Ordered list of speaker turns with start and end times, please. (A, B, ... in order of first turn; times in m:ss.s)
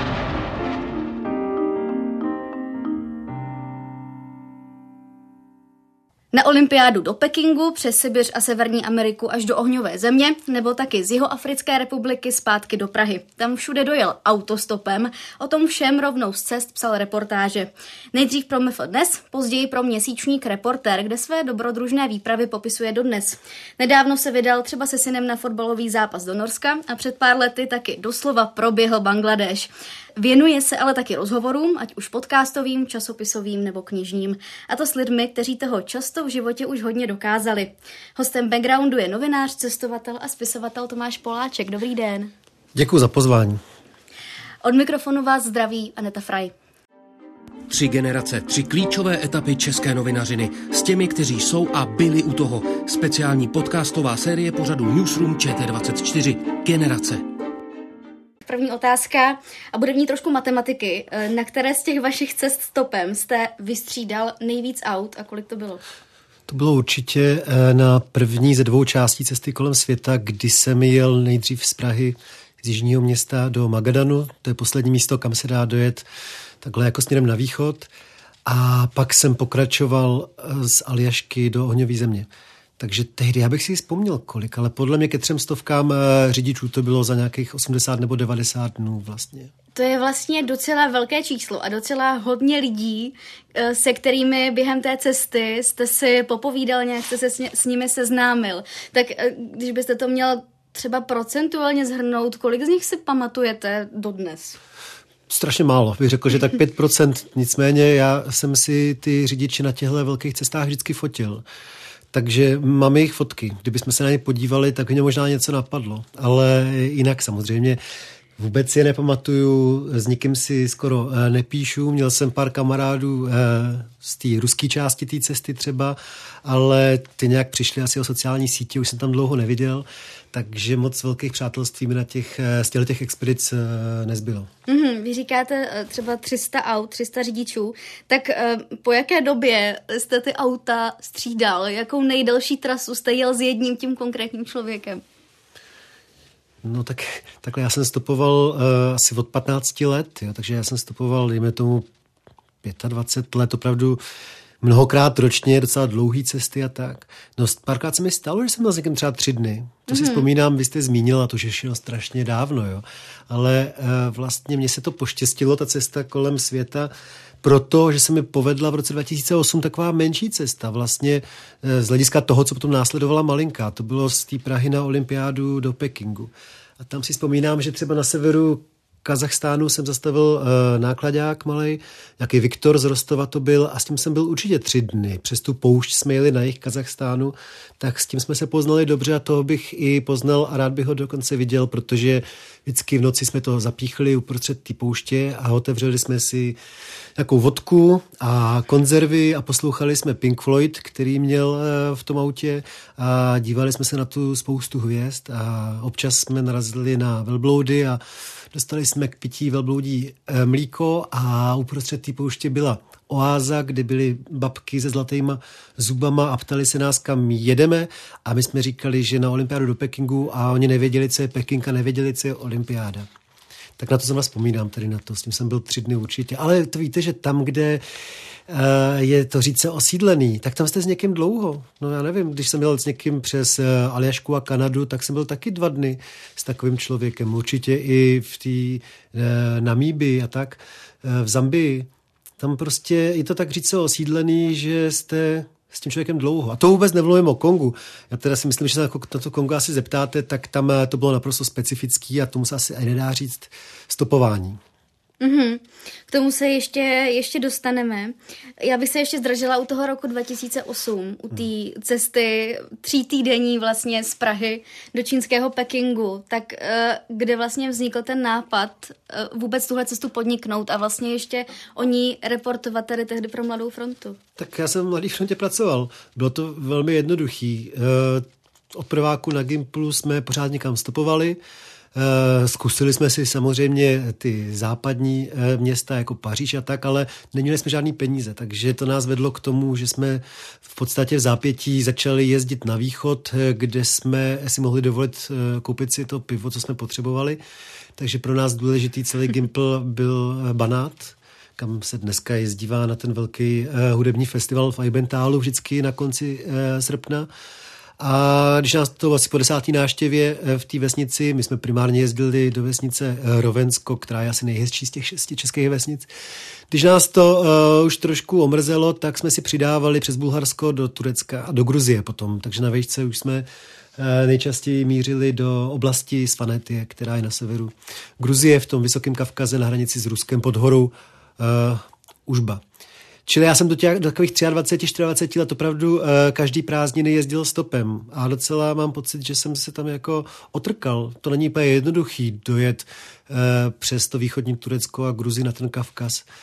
0:06.3-0:42.3 A
0:42.7-0:43.6 B
0:44.6-0:46.5 A
0:47.7-0:57.2 C
0:58.4-1:05.8 A
1:06.5-1:16.0 B
1:16.6-1:17.9 B
1:18.4-1:22.3 B
1:22.8-1:29.5 B
1:29.7-1:44.6 A
1:45.3-1:51.4 B
1:52.1-1:57.8 B
1:58.4-2:14.5 B
2:14.7-2:25.0 A
2:26.6-2:31.8 B
2:32.6-2:34.0 B
2:34.6-2:46.9 B
2:39.9-2:40.3 A
2:47.4-3:16.6 B
3:17.2-3:43.1 B
3:43.8-3:47.8 B
3:48.5-4:14.6 B
4:15.2-4:34.2 A
4:34.4-4:41.4 B
4:41.9-4:57.4 B
4:58.0-5:07.3 B
5:08.0-5:16.1 B
5:16.7-5:32.6 B
5:33.2-5:46.2 B